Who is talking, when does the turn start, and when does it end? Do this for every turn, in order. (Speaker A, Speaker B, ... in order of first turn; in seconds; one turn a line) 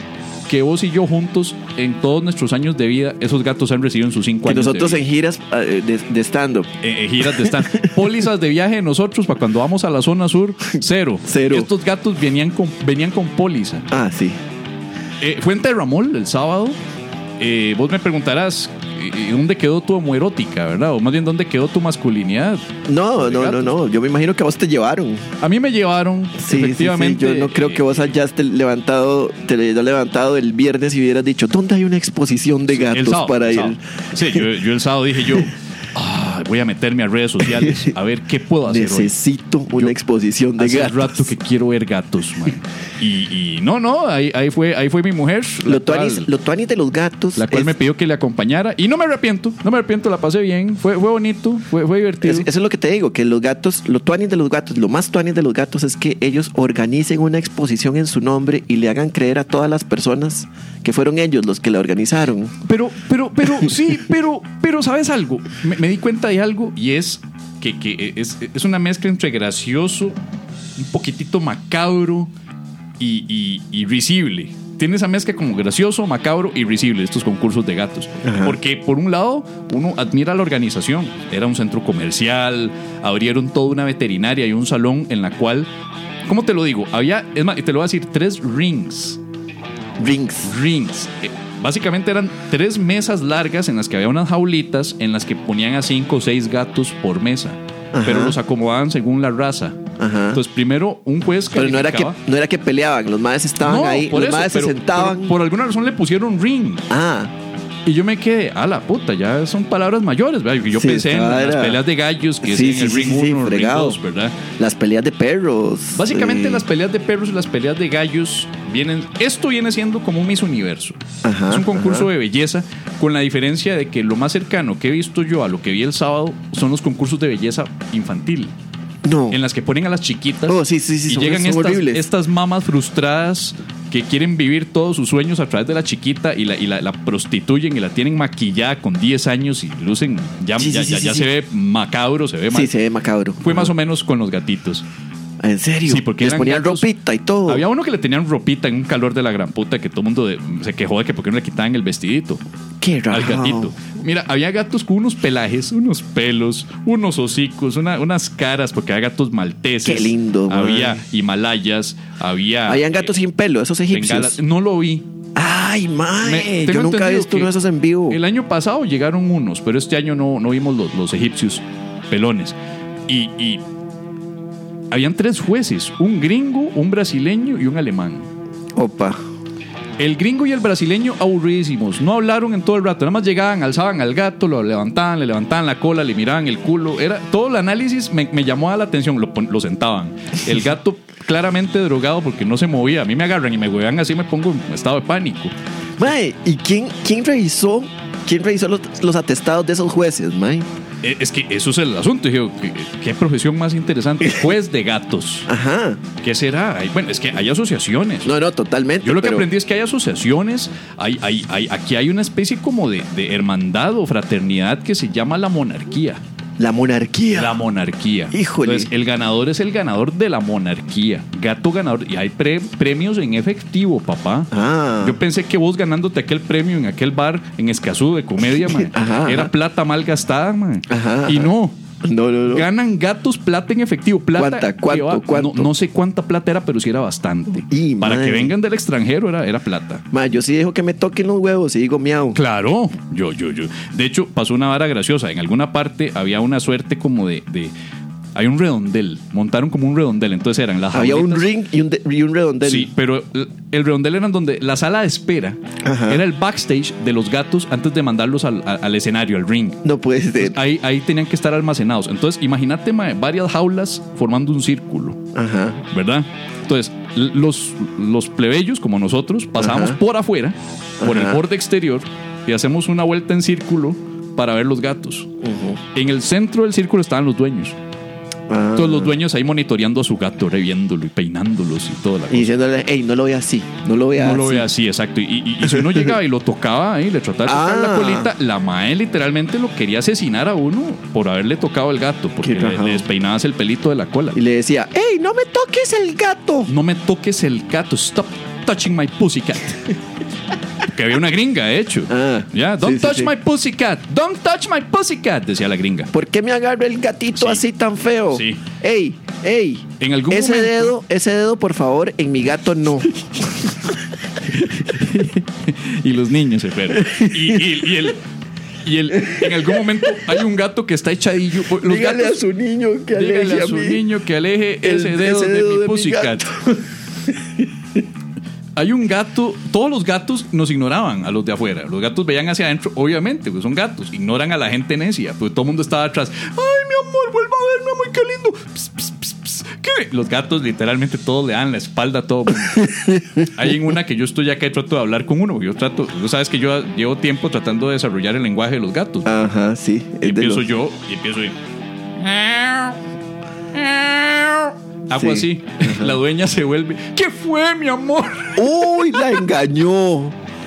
Speaker A: 0.5-5.0
Speaker B: 4.5-6.7
Speaker A: 6.8-13.9
Speaker B: 7.3-7.9
Speaker B: 11.3-11.7
Speaker B: 13.9-14.4
Speaker A: 15.2-16.8
Speaker A: 17.4-23.8
Speaker B: 22.9-25.3
Speaker A: 25.4-28.1
Speaker B: 26.4-34.5
Speaker A: 32.7-39.1
Speaker B: 37.6-37.9
Speaker B: 38.7-41.3
Speaker A: 40.6-46.3
Speaker B: 45.6-47.7
Speaker A: 47.4-52.5
Speaker B: 52.2-62.6
Speaker A: 62.6-70.2
Speaker A: 70.8-72.3
Speaker A: 73.0-85.7
Speaker B: 78.2-78.6
Speaker A: 86.3-89.2
Speaker B: 90.0-90.5
Speaker A: 90.4-99.8
Speaker B: 97.9-98.4
Speaker B: 100.0-100.4
Speaker A: 100.3-102.2
Speaker B: 101.5-105.3
Speaker A: 103.6-106.9
Speaker B: 106.9-107.3
Speaker A: 107.9-114.4
Speaker B: 110.7-111.8
Speaker B: 112.4-114.0
Speaker B: 114.6-116.7
Speaker A: 116.0-128.5
Speaker B: 121.2-122.1
Speaker B: 129.0-129.4
Speaker A: 129.3-142.7
Speaker B: 130.5-132.1
Speaker B: 140.6-141.3
Speaker B: 142.5-143.7
Speaker A: 143.4-144.9
Speaker B: 145.4-147.6
Speaker A: 145.9-146.9
Speaker A: 147.5-152.4
Speaker B: 152.8-153.7
Speaker A: 153.1-163.1
Speaker B: 159.8-161.0
Speaker B: 162.7-164.4
Speaker A: 163.9-165.1
Speaker B: 165.3-168.2
Speaker A: 166.2-167.5
Speaker A: 168.1-172.6
Speaker A: 173.1-173.6
Speaker A: 174.9-178.3
Speaker B: 178.8-179.2
Speaker A: 180.0-195.5
Speaker B: 196.0-200.7
Speaker A: 201.0-205.5
Speaker B: 205.5-206.0
Speaker A: 206.2-208.3
Speaker B: 208.2-209.5
Speaker A: 209.0-216.2
Speaker B: 216.6-217.6
Speaker A: 217.3-231.8
Speaker B: 218.3-218.9
Speaker B: 224.5-225.2
Speaker B: 228.7-229.5
Speaker B: 230.9-231.5
Speaker B: 232.0-232.7
Speaker A: 232.5-240.0
Speaker B: 234.4-235.7
Speaker B: 237.7-238.5
Speaker B: 240.1-242.4
Speaker A: 242.3-247.7
Speaker A: 248.3-251.5
Speaker B: 250.9-252.9
Speaker A: 252.6-259.8
Speaker B: 255.8-256.2
Speaker B: 259.8-260.6
Speaker A: 260.4-265.2
Speaker B: 265.3-265.8
Speaker A: 265.9-275.3
Speaker B: 269.6-270.0
Speaker B: 271.0-271.4
Speaker B: 275.4-275.8
Speaker A: 275.9-277.8
Speaker B: 278.5-279.1
Speaker A: 278.8-282.5
Speaker B: 282.3-284.7
Speaker A: 284.1-294.4
Speaker B: 285.6-286.1
Speaker B: 287.5-288.3
Speaker B: 292.4-293.1
Speaker B: 294.3-296.7
Speaker A: 296.7-299.9
Speaker A: 300.9-306.1
Speaker B: 302.1-303.3
Speaker B: 306.1-314.0
Speaker A: 307.4-307.6
Speaker A: 308.3-308.6
Speaker A: 310.0-310.9
Speaker A: 314.5-318.2
Speaker B: 316.9-317.9
Speaker A: 318.8-322.4
Speaker B: 319.2-320.2
Speaker B: 321.8-324.0
Speaker A: 323.1-326.5
Speaker B: 324.8-327.7
Speaker A: 328.8-349.3
Speaker B: 342.7-343.5
Speaker B: 349.2-350.6
Speaker A: 350.2-351.6
Speaker A: 352.2-353.0
Speaker A: 353.7-359.2
Speaker B: 355.2-356.1
Speaker B: 358.6-360.4